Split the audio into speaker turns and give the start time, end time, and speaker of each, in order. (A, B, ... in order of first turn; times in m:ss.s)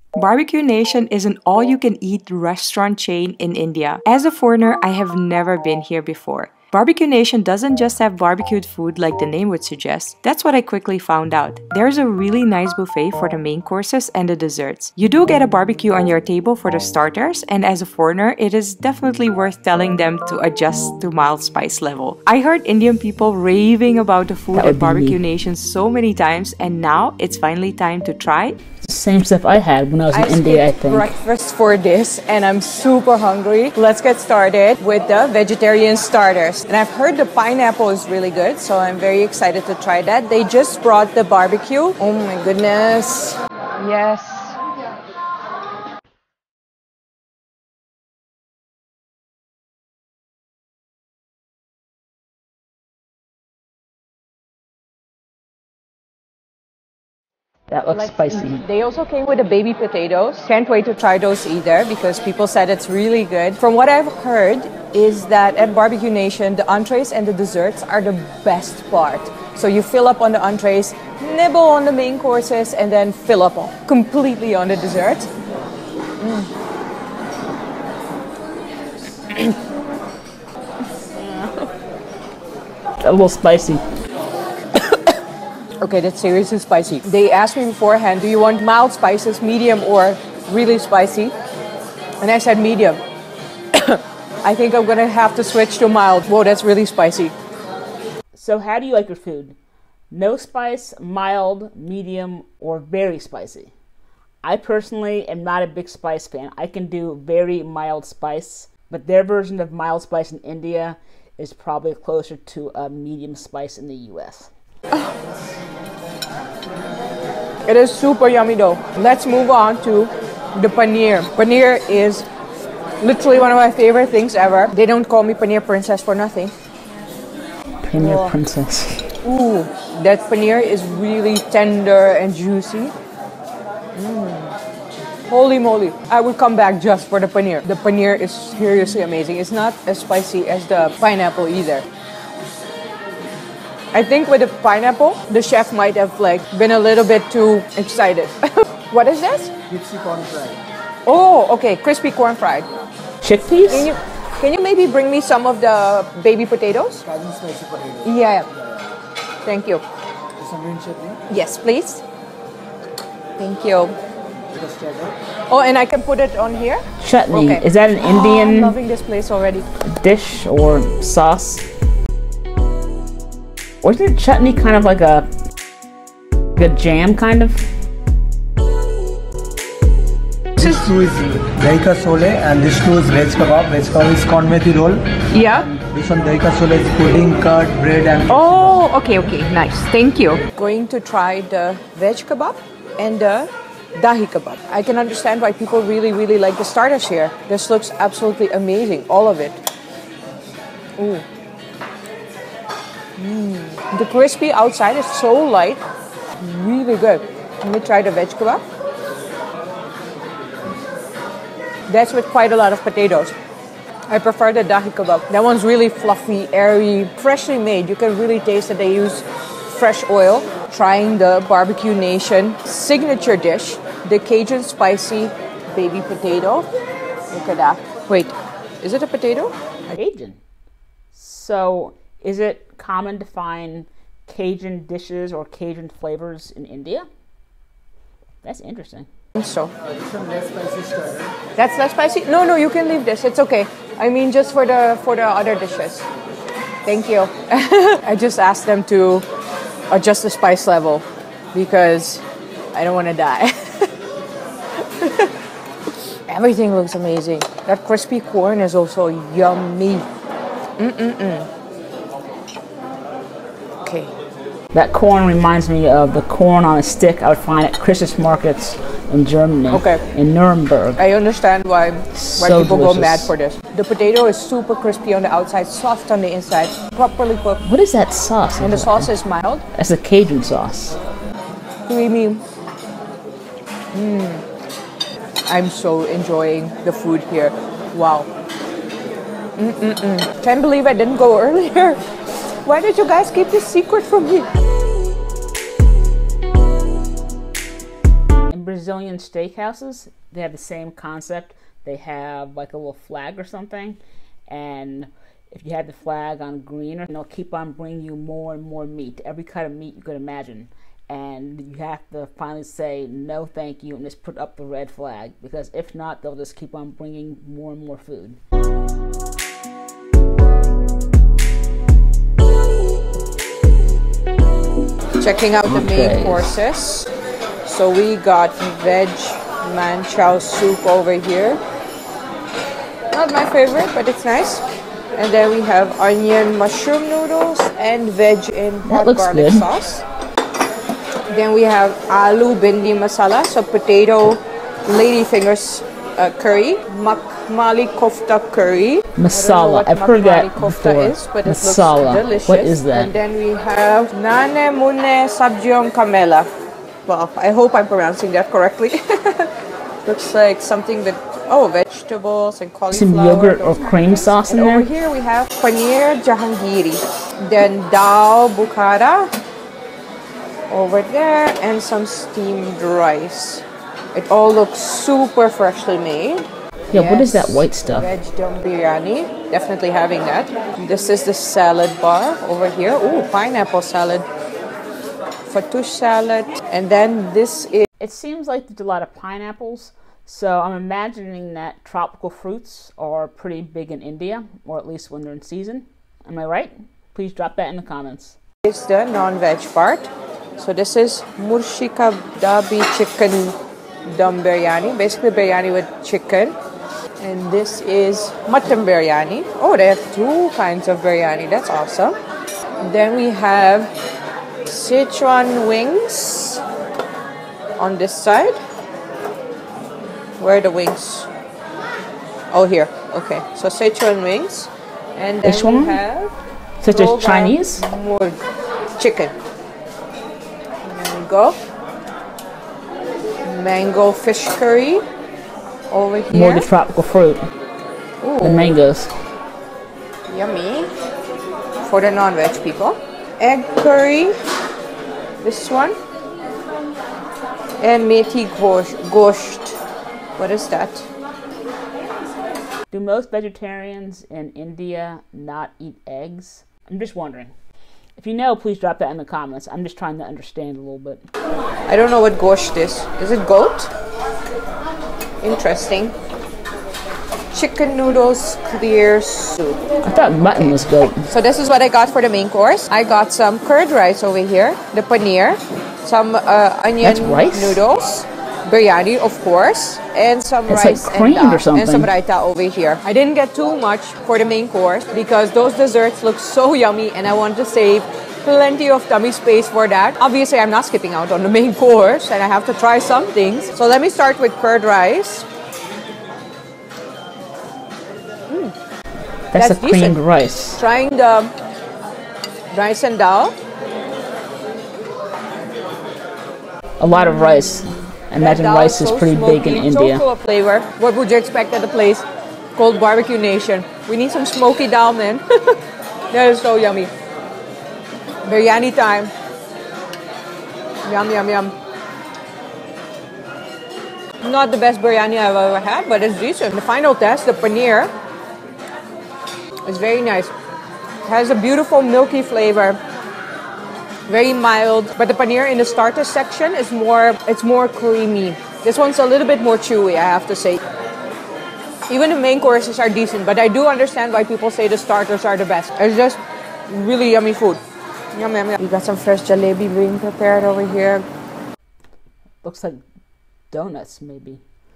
0:00.2-0:28.6 A
0:24.5-0:25.2 B
0:28.8-0:31.1 B
0:30.1-0:44.6 C
0:57.7-0:58.6 B
0:57.9-1:15.3 C
1:16.2-1:16.5 C
1:21.2-1:21.7 B
1:23.0-1:23.8 B
1:25.8-1:31.3 C
1:32.2-1:33.0 C
1:33.8-1:37.3 C
1:38.3-1:39.6 B
1:40.1-1:43.7 B
1:44.4-1:54.5 B
1:54.9-1:55.2 C
1:57.7-2:02.3 C
2:03.0-2:06.5 C
2:07.8-2:09.1 B
2:08.0-2:08.4 C
2:09.2-2:12.9 C
2:14.0-2:14.6 C
2:15.3-2:21.9 C
2:23.9-2:29.5 C
2:29.7-2:30.6 D
2:31.1-2:32.7 C
2:33.2-2:33.9 B
2:33.7-2:37.0 C
2:37.0-2:38.1 D
2:38.0-2:38.5 C
2:39.4-2:39.8 C
2:40.4-2:41.2 D
2:41.3-2:42.0 C
2:43.4-2:44.0 C
2:44.5-2:45.1 D
2:45.5-2:49.7 C
2:47.0-2:48.8 B
2:49.9-2:51.7 B
2:53.8-2:55.3 B
2:56.6-2:57.7 B
3:00.6-3:05.0 D
3:00.6-3:00.9 C
3:05.3-3:05.7 C
3:05.6-3:08.8 D
3:08.3-3:19.6 C
3:21.0-3:21.2 C
3:23.2-3:25.8 C
3:26.4-3:28.6 C
3:31.9-3:33.3 C
3:34.1-3:46.7 C
3:47.3-3:49.6 C
3:49.9-3:50.4 B
3:51.1-3:57.1 B
3:58.4-3:59.1 B
3:59.4-3:59.7 C
4:01.6-4:06.1 C
4:06.8-4:09.3 C
4:09.9-4:12.2 C
4:12.7-4:13.9 C
4:14.8-4:15.3 C
4:16.3-4:20.1 C
4:20.8-4:21.5 C
4:23.8-4:24.1 C
4:24.7-4:31.0 B
4:29.7-4:30.0 C
4:31.0-4:37.6 C
4:32.1-4:33.3 B
4:37.6-4:39.2 B
4:38.6-4:39.6 C
4:39.7-4:41.0 B
4:41.9-4:42.4 C
4:43.9-4:44.4 C
4:45.5-4:48.3 C
4:49.6-4:52.0 C
4:52.6-4:54.5 C
4:58.5-5:18.4 B
5:25.2-5:27.1 C
5:25.6-5:26.6 B
5:27.6-5:31.6 C
5:33.1-5:34.6 C
5:35.2-5:40.0 C
5:38.8-5:39.7 B
5:41.3-5:56.5 C
5:49.2-5:53.2 B
5:57.1-5:59.5 C
6:00.1-6:09.3 C
6:02.9-6:04.9 B
6:10.7-6:24.3 C
6:16.9-6:18.1 B
6:25.5-6:27.9 C
6:28.0-6:38.4 B
6:38.6-6:46.6 C
6:47.2-6:52.2 C
6:52.8-6:53.9 C
6:54.7-6:56.6 C
6:57.8-6:58.6 C
7:00.4-7:01.3 C
7:02.5-7:06.4 C
7:05.4-7:06.0 B
7:06.8-7:07.8 B
7:06.9-7:08.4 C
7:09.0-7:09.3 C
7:10.8-7:11.6 C
7:13.4-7:15.1 C
7:15.9-7:16.7 C
7:16.3-7:17.4 B
7:18.2-7:18.8 C
7:18.4-7:19.1 B
7:20.3-7:20.9 C
7:21.8-7:24.4 C
7:25.4-7:26.0 C
7:27.8-7:29.8 C
7:30.4-7:31.1 C
7:32.9-7:37.5 B
7:38.2-7:41.2 B
7:41.9-7:43.9 C
7:45.4-7:46.2 C
7:47.5-7:49.8 C
7:50.0-7:51.3 B
7:50.6-8:15.5 C
7:57.0-7:57.8 B
8:00.7-8:02.1 B
8:18.5-8:18.7 C
8:19.5-8:20.8 B
8:19.6-8:20.2 C
8:20.8-8:21.5 C
8:22.7-8:23.6 C
8:27.0-8:30.2 B
8:27.4-8:27.8 C
8:28.4-8:35.8 C
8:36.3-8:37.1 C
8:38.4-8:39.3 C
8:41.0-8:41.7 C
8:44.4-8:48.1 C
8:49.8-8:50.5 C
8:51.2-8:53.0 C
8:54.3-9:00.8 C
9:02.1-9:07.8 C
9:08.3-9:11.3 C
9:12.6-9:13.0 B
9:13.7-9:14.6 B